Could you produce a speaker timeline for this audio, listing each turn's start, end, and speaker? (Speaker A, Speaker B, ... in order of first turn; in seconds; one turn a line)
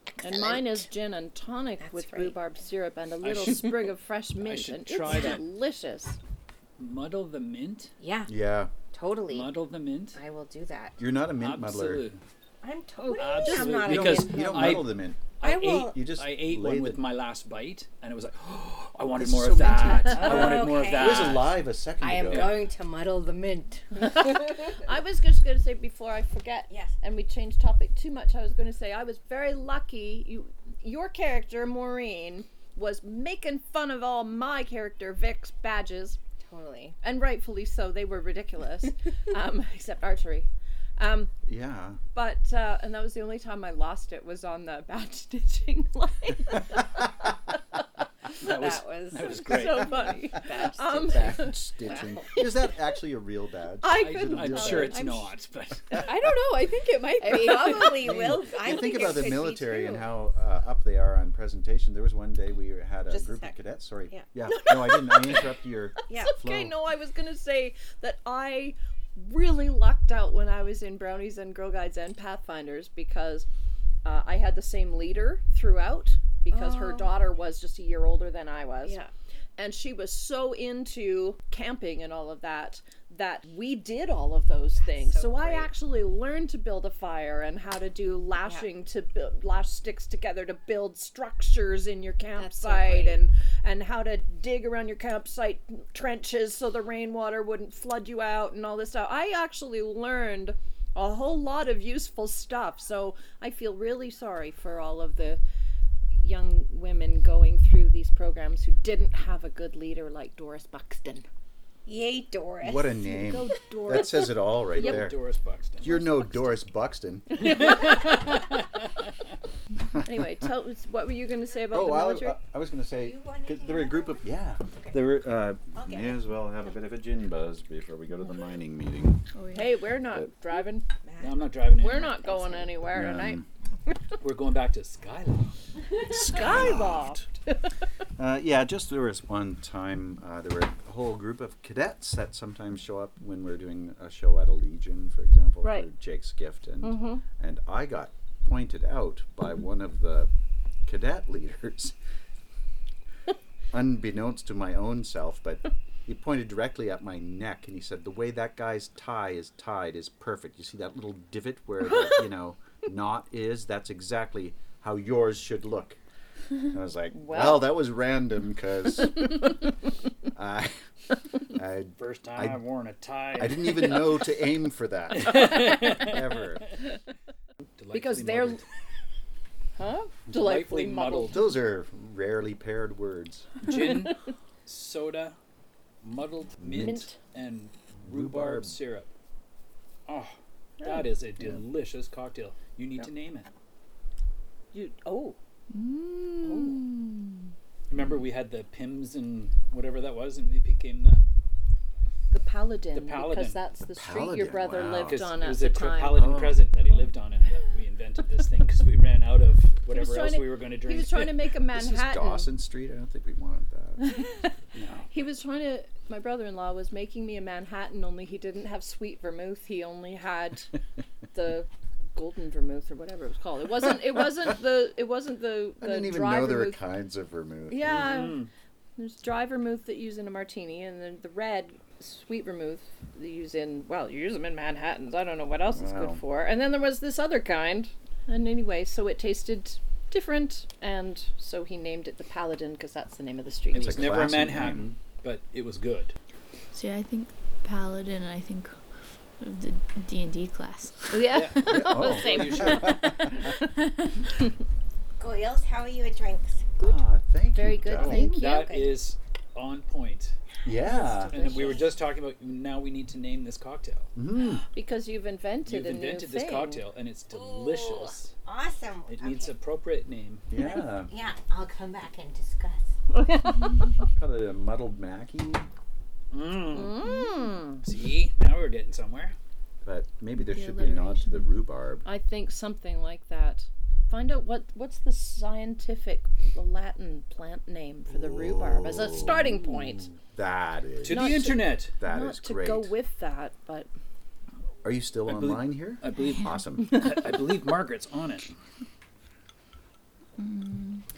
Speaker A: 0.1-0.9
Speaker B: 0.2-6.2
Speaker A: 1.8-2.4
Speaker C: 3.2-3.8
Speaker C: 4.4-5.4
Speaker C: 6.8-7.9
Speaker A: 8.0-8.3
Speaker D: 8.3-8.7
Speaker A: 8.9-9.6
Speaker C: 9.3-10.2
Speaker A: 10.1-11.0
Speaker D: 11.0-12.1
Speaker C: 11.4-12.2
Speaker A: 12.6-14.9
Speaker C: 13.1-21.6
Speaker D: 13.5-15.2
Speaker A: 15.4-16.0
Speaker D: 15.9-17.0
Speaker D: 19.1-22.6
Speaker A: 20.1-21.4
Speaker A: 22.0-24.8
Speaker C: 22.2-22.6
Speaker B: 24.0-36.2
Speaker A: 26.7-26.9
Speaker A: 36.5-37.0
Speaker B: 37.0-41.3
Speaker D: 41.5-42.0
Speaker B: 42.1-47.1
Speaker C: 48.4-50.2
Speaker A: 48.4-52.5
Speaker B: 49.3-51.6
Speaker D: 51.0-55.0
Speaker B: 53.8-55.4
Speaker C: 53.9-56.1
Speaker B: 55.9-58.2
Speaker A: 57.2-60.1
Speaker D: 58.0-66.7
Speaker A: 63.1-64.3
Speaker B: 64.5-65.5
Speaker A: 66.1-66.4
Speaker B: 66.1-73.5
Speaker B: 74.0-79.0
Speaker A: 76.5-77.1
Speaker A: 78.8-79.1
Speaker B: 79.6-105.4
Speaker A: 84.8-85.7
Speaker A: 92.3-93.2
Speaker B: 106.2-111.3
Speaker A: 111.9-113.0
Speaker D: 112.6-115.2
Speaker B: 113.0-115.1
Speaker C: 114.7-116.1
Speaker D: 115.8-117.7
Speaker B: 115.9-116.5
Speaker C: 117.5-118.5
Speaker B: 120.0-122.4
Speaker D: 121.7-129.2
Speaker A: 123.0-124.3
Speaker A: 125.7-126.2
Speaker E: 129.3-129.7
Speaker B: 129.5-130.9
Speaker A: 131.0-132.8
Speaker C: 131.2-132.1
Speaker B: 131.8-133.4
Speaker D: 132.9-133.5
Speaker C: 134.2-135.5
Speaker B: 136.0-137.5
Speaker D: 136.1-137.3
Speaker D: 138.2-150.3
Speaker B: 145.6-145.9
Speaker B: 146.8-147.2
Speaker D: 150.9-151.9
Speaker D: 153.7-166.0
Speaker D: 166.7-169.6
Speaker B: 167.1-167.8
Speaker D: 170.3-170.8
Speaker D: 171.4-172.6
Speaker C: 172.0-174.0
Speaker D: 173.3-176.7
Speaker C: 175.2-176.6
Speaker C: 177.8-178.6
Speaker B: 177.9-178.6
Speaker B: 179.8-181.5
Speaker C: 180.3-181.4
Speaker D: 181.3-183.6
Speaker C: 183.6-185.4
Speaker C: 186.0-189.1
Speaker D: 186.6-187.1
Speaker B: 186.8-187.2
Speaker D: 188.0-188.7
Speaker C: 190.1-193.5
Speaker B: 194.7-195.4
Speaker E: 195.7-197.4
Speaker B: 196.4-196.9
Speaker C: 197.9-201.2
Speaker B: 202.3-206.4
Speaker C: 202.9-203.6
Speaker D: 204.0-205.3
Speaker C: 205.0-211.5
Speaker D: 206.1-206.7
Speaker B: 209.9-212.5
Speaker D: 211.7-214.2
Speaker B: 214.0-214.5
Speaker C: 214.7-215.1
Speaker B: 215.1-220.7
Speaker B: 221.3-226.8
Speaker D: 225.8-228.3
Speaker B: 227.7-228.4
Speaker C: 227.9-228.5
Speaker B: 229.0-244.1
Speaker D: 235.7-236.2
Speaker C: 243.7-246.2
Speaker D: 243.7-244.9
Speaker E: 246.7-248.8
Speaker E: 249.4-252.0
Speaker B: 251.1-253.1
Speaker C: 251.3-253.0
Speaker D: 251.6-253.6
Speaker E: 253.0-254.2
Speaker A: 255.2-256.7
Speaker D: 256.8-258.4
Speaker B: 257.5-258.4
Speaker C: 258.0-260.4
Speaker E: 258.0-258.4
Speaker A: 258.3-259.0
Speaker D: 260.6-261.4
Speaker A: 260.6-262.0
Speaker C: 261.3-264.1
Speaker D: 264.1-264.6
Speaker B: 264.7-266.8
Speaker C: 265.7-268.3
Speaker A: 267.3-269.6
Speaker C: 269.1-270.5
Speaker D: 270.5-271.1
Speaker A: 270.5-272.9
Speaker B: 273.1-273.8
Speaker D: 274.2-275.7
Speaker C: 276.3-277.0
Speaker B: 276.7-277.8
Speaker E: 277.0-277.6
Speaker C: 277.8-279.4
Speaker D: 279.8-282.1
Speaker E: 280.4-281.5
Speaker B: 282.1-290.1
Speaker D: 288.1-292.9
Speaker C: 291.0-291.9
Speaker B: 291.1-293.9
Speaker D: 294.8-297.0
Speaker C: 295.2-298.5
Speaker E: 296.1-296.5
Speaker E: 300.4-301.0